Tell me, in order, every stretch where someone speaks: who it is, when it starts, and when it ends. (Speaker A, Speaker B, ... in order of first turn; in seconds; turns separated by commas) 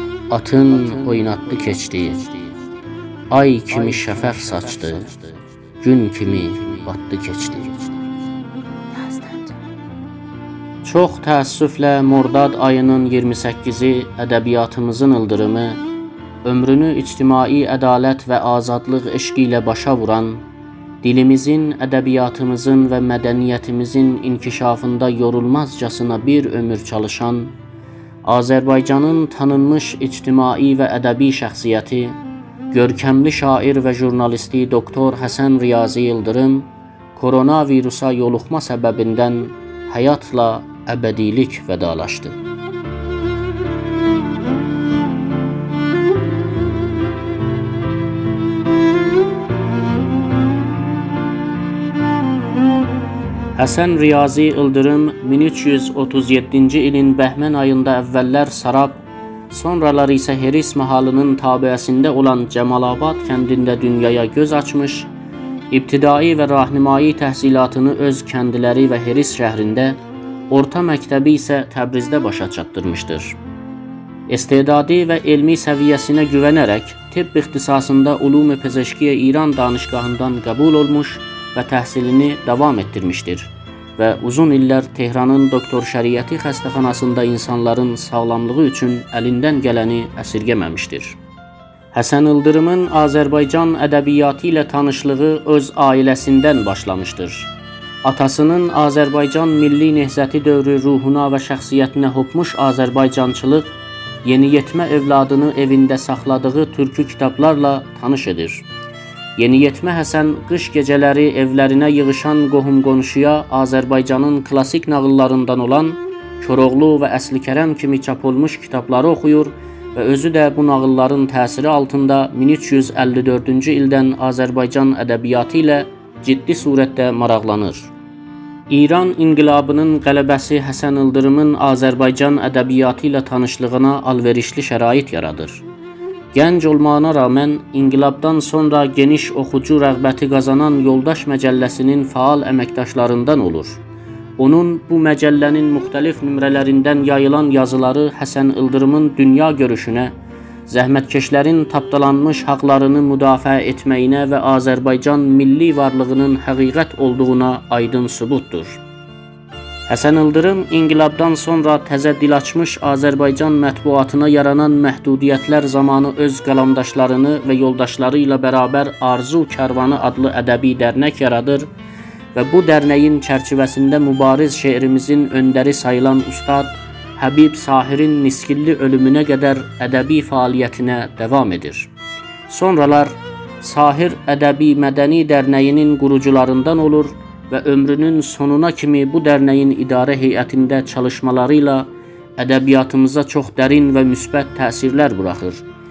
Speaker A: 0.3-2.4, Speaker A: 3.3-7.9, Speaker A: 10.8-15.8, Speaker A: 16.4-20.4, Speaker A: 21.0-27.5, Speaker A: 28.2-32.2, Speaker A: 32.7-42.4, Speaker A: 53.5-65.1, Speaker A: 65.7-70.0, Speaker A: 70.5-73.4, Speaker A: 74.3-91.2, Speaker A: 91.9-97.5, Speaker A: 98.0-103.7, Speaker A: 104.2-108.7, Speaker A: 109.4-127.9, Speaker A: 128.7-135.6, Speaker A: 136.3-143.8, Speaker A: 144.4-150.1, Speaker A: 150.7-158.8, Speaker A: 159.9-171.7, Speaker A: 172.3-181.9, Speaker A: 182.5-195.6